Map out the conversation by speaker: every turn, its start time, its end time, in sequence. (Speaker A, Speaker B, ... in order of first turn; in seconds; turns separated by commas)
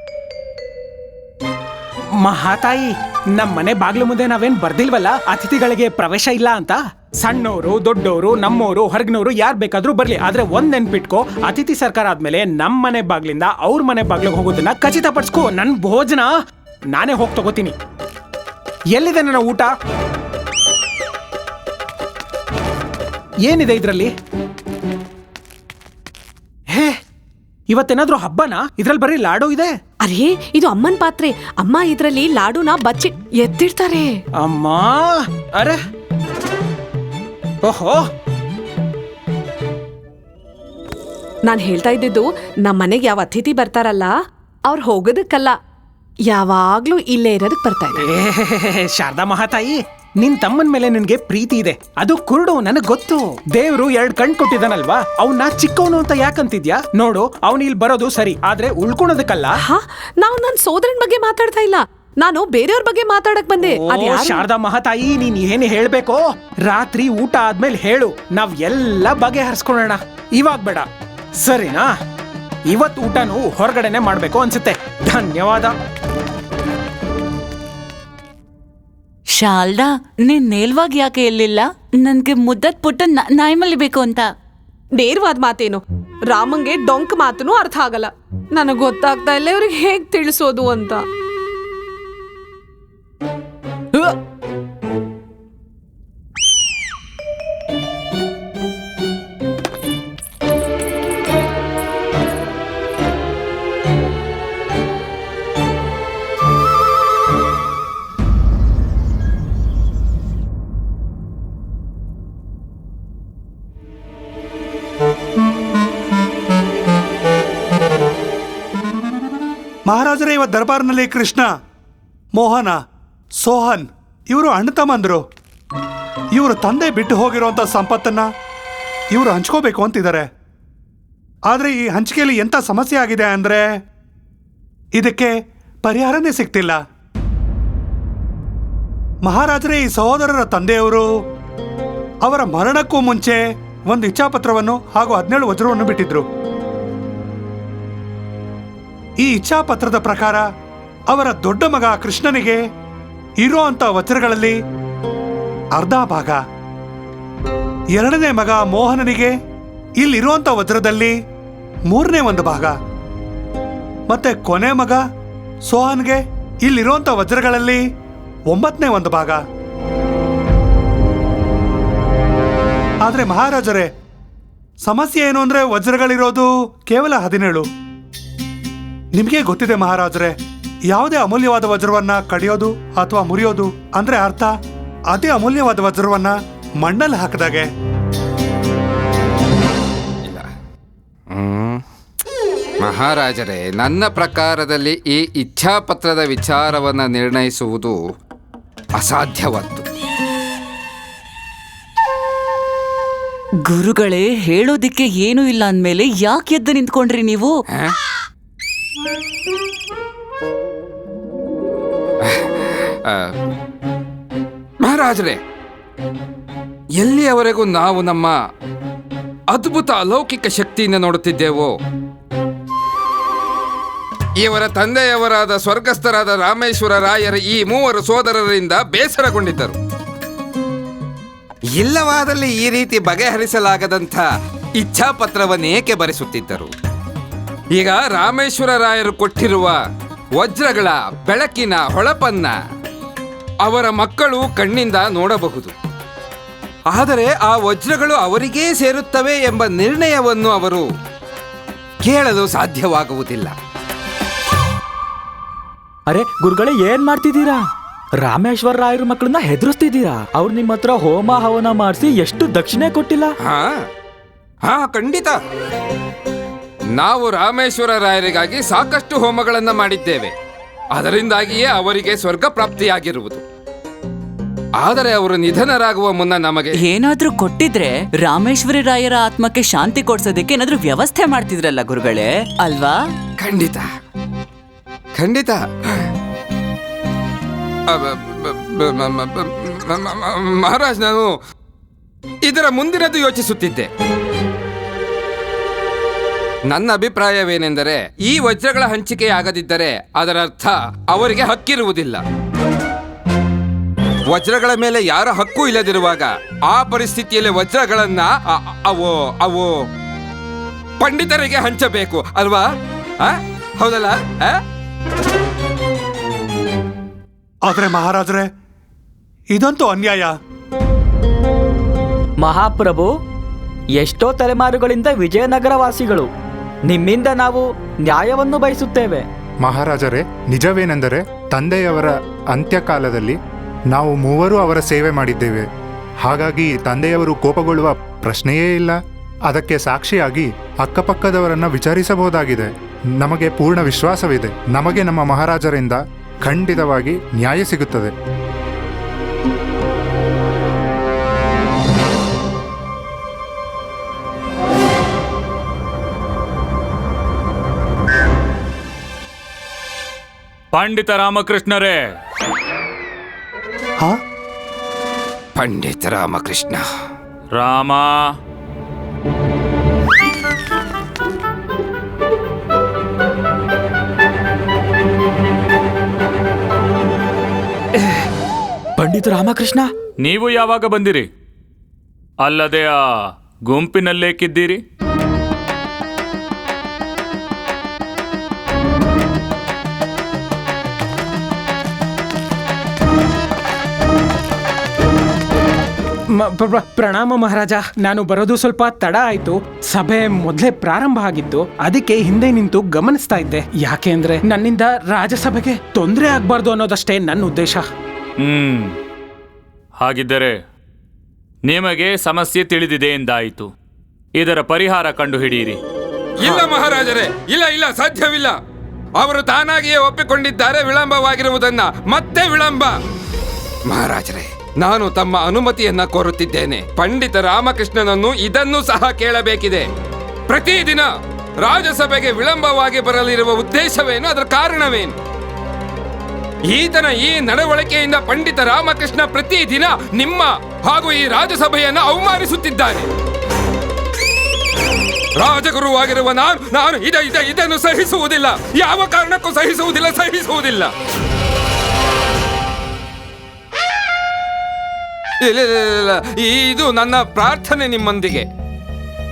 Speaker A: 2.2-16.3, Speaker A: 16.9-17.8, Speaker A: 18.9-19.7, Speaker A: 23.4-24.1, Speaker A: 27.7-29.7, Speaker B: 30.0-34.1, Speaker A: 34.4-35.8, Speaker A: 37.6-38.0, Speaker B: 41.4-44.1, Speaker B: 44.7-45.5, Speaker B: 46.3-48.0, Speaker A: 48.1-59.5, Speaker B: 59.7-64.5, Speaker A: 63.8-70.8, Speaker A: 71.4-71.9, Speaker A: 72.7-75.7, Speaker C: 79.3-84.3, Speaker B: 84.9-91.0, Speaker D: 119.9-121.5, Speaker D: 122.3-122.8, Speaker D: 123.4-125.2, Speaker D: 126.3-128.3, Speaker D: 129.1-130.3, Speaker D: 131.5-133.7, Speaker D: 134.9-136.8, Speaker D: 139.2-141.1, Speaker D: 142.2-146.3, Speaker D: 149.2-150.4, Speaker D: 151.1-152.6, Speaker D: 153.4-154.6, Speaker D: 155.8-156.4, Speaker D: 157.9-159.3, Speaker D: 160.0-161.1, Speaker D: 161.9-162.8, Speaker D: 164.1-165.0, Speaker D: 165.7-167.8, Speaker D: 168.5-169.4, Speaker D: 173.0-173.9, Speaker D: 174.8-177.7, Speaker D: 179.1-180.3, Speaker D: 180.9-184.5, Speaker D: 185.1-187.7, Speaker E: 191.3-191.8, Speaker E: 192.8-197.9, Speaker E: 199.0-199.8, Speaker C: 203.7-207.5, Speaker E: 212.2-213.2, Speaker E: 214.8-215.4, Speaker E: 217.0-218.3, Speaker E: 219.5-221.7, Speaker E: 224.4-229.8, Speaker E: 231.8-234.2, Speaker E: 234.8-236.7, Speaker E: 237.8-239.8, Speaker E: 240.4-242.5, Speaker E: 243.6-245.7, Speaker E: 246.9-250.8, Speaker E: 252.1-253.5, Speaker F: 256.1-257.6, Speaker F: 258.2-263.3, Speaker E: 263.4-263.7, Speaker E: 264.6-265.4, Speaker E: 267.0-270.3, Speaker E: 270.9-273.4, Speaker E: 274.8-276.9, Speaker C: 276.8-283.0, Speaker E: 283.4-283.9, Speaker E: 285.2-286.0, Speaker E: 287.9-291.3, Speaker E: 292.4-293.9, Speaker E: 296.7-302.2, Speaker E: 304.3-309.7, Speaker E: 311.0-312.6, Speaker E: 313.2-314.6, Speaker D: 317.6-318.5, Speaker D: 319.5-320.3, Speaker F: 322.4-323.1, Speaker F: 323.9-326.3, Speaker F: 326.9-329.2, Speaker G: 329.6-333.4, Speaker G: 333.9-335.6, Speaker G: 336.2-338.9, Speaker G: 339.5-348.1, Speaker H: 360.7-362.0, Speaker E: 365.6-366.8, Speaker H: 367.5-368.3, Speaker F: 379.0-379.9, Speaker H: 380.2-381.3, Speaker H: 382.4-384.8, Speaker A: 396.4-407.9, Speaker H: 408.4-409.0, Speaker H: 410.0-410.5, Speaker H: 411.6-413.7, Speaker H: 414.4-415.8, Speaker E: 416.4-418.5, Speaker E: 419.2-422.9, Speaker E: 423.9-429.9, Speaker E: 430.5-431.1, Speaker E: 431.6-435.1, Speaker E: 436.7-443.1, Speaker E: 445.4-450.9, Speaker E: 455.4-458.4